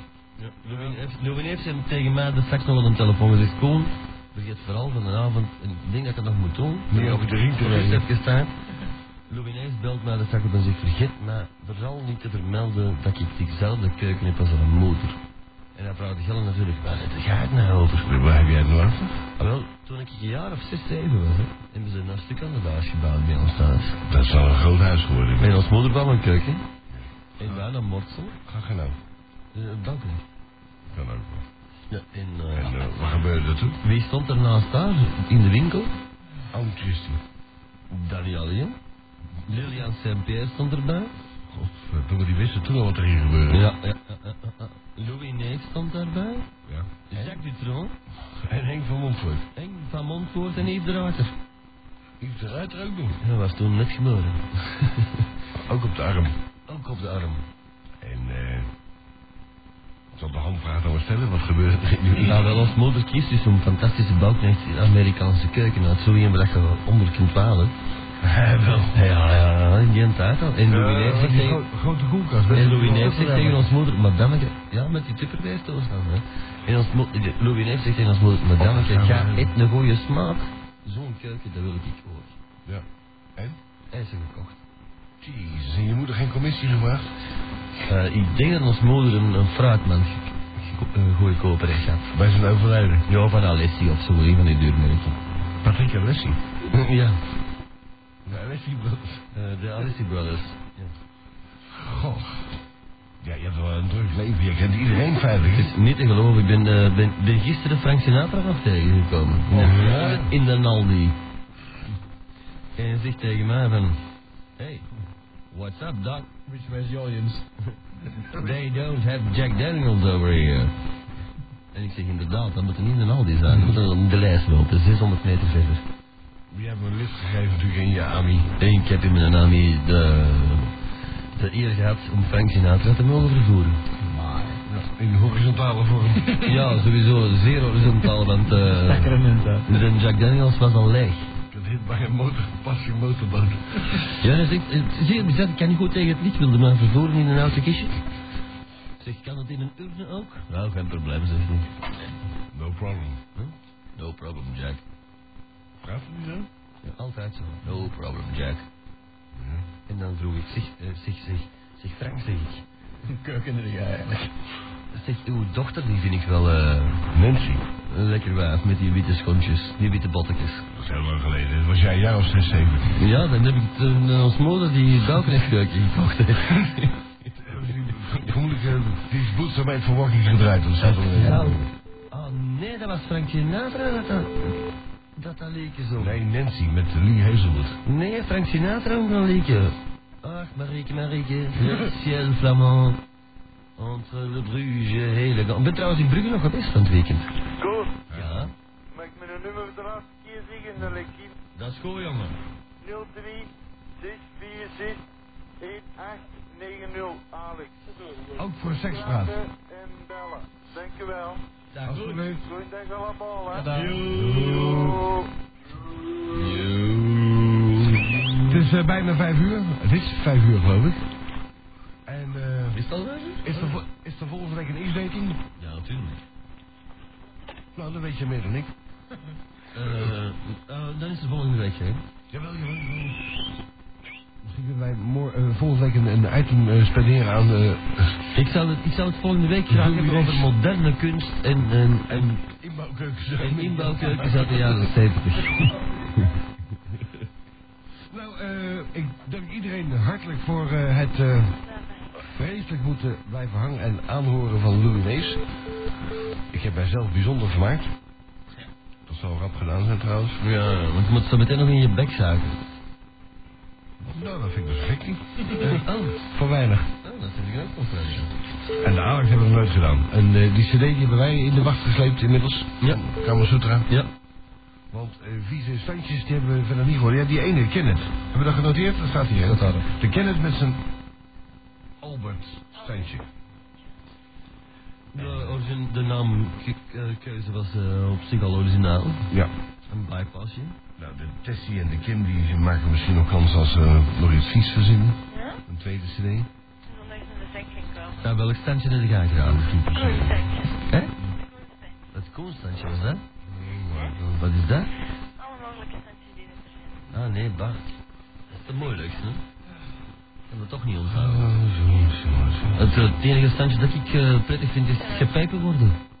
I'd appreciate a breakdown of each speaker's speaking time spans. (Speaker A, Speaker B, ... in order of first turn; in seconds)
Speaker A: 0.4-8.6, 9.3-15.2, 15.7-18.1, 19.4-24.0, 25.4-26.6, 27.4-28.4, 29.5-30.2, 31.9-32.9, 33.8-35.9, 37.9-38.8, 39.4-41.1, 43.5-46.5, 47.1-48.0, 49.5-51.3, 53.2-55.2, 56.7-57.4, 62.2-67.7, 68.7-71.6, 72.5-82.4, 83.9-84.6, 87.8-92.1, 93.1-95.2, 96.7-97.2, 99.3-100.9, 105.5-111.2, 112.8-114.0, 114.6-114.9, 115.5-116.3, 118.3-120.7, 121.7-125.8, 128.6-130.7, 131.3-133.8, 136.4-141.3, 144.2-148.0, 149.0-151.7, 153.3-154.8, 156.8-158.7, 159.9-162.6, 164.9-167.1, 167.9-170.7, 172.9-177.1, 180.8-186.2, 187.8-193.0, 193.8-197.3, 198.1-198.5, 201.5-202.4, 211.7-212.2, 213.5-214.8, 216.3-218.7, 222.7-223.8, 225.6-226.2, 229.7-232.0, 238.3-242.4, 243.4-245.7, 260.4-262.6, 265.5-266.2, 267.0-268.3, 285.1-289.3, 289.9-290.8, 298.2-299.7, 300.9-301.1, 302.1-303.2, 304.4-304.9, 307.1-307.9, 308.5-309.4, 310.5-311.5, 312.7-316.0
Speaker B: 0.7-1.0, 70.7-71.2, 197.6-198.0, 198.9-201.3, 202.8-205.0, 205.6-207.8, 208.7-211.4, 212.3-215.3
Speaker C: 6.9-8.1, 18.0-19.2, 24.1-25.6, 26.9-27.7, 28.4-29.0, 30.9-31.4, 32.5-33.8, 36.5-37.2, 41.5-43.7, 46.6-47.4, 48.3-49.5, 52.2-53.2, 55.5-56.3, 58.0-58.7, 60.1-62.5, 68.2-69.0, 71.0-73.7, 78.6-79.5, 82.7-83.6, 85.2-87.1, 92.1-93.1, 95.6-96.4, 98.2-99.2, 101.7-102.5, 103.2-105.7, 109.5-110.3, 126.5-128.6, 134.2-136.7, 141.5-144.1, 152.5-153.2, 155.8-156.5, 159.3-159.7, 167.1-167.6, 170.7-172.9, 177.3-181.7, 186.0-187.8, 191.6-191.9, 198.1-198.5, 208.3-209.4, 211.8-212.4, 214.0-215.1, 218.5-221.1, 222.1-222.8, 223.4-225.4, 227.7-228.7, 229.8-230.1, 232.3-233.2, 234.4-238.2, 239.7-240.5, 242.5-244.9, 248.1-251.6, 252.2-255.4, 256.5-257.9, 259.1-260.4, 264.0-266.9, 268.8-273.9, 274.9-280.8, 282.0-283.2, 285.1-285.6, 291.0-296.5, 299.4-300.5, 303.4-304.4, 311.1-313.2
Speaker D: 251.6-252.2, 282.8-283.1, 295.3-295.6, 296.8-298.3, 299.9-302.0, 305.4-307.1, 308.5-309.1, 315.0-315.3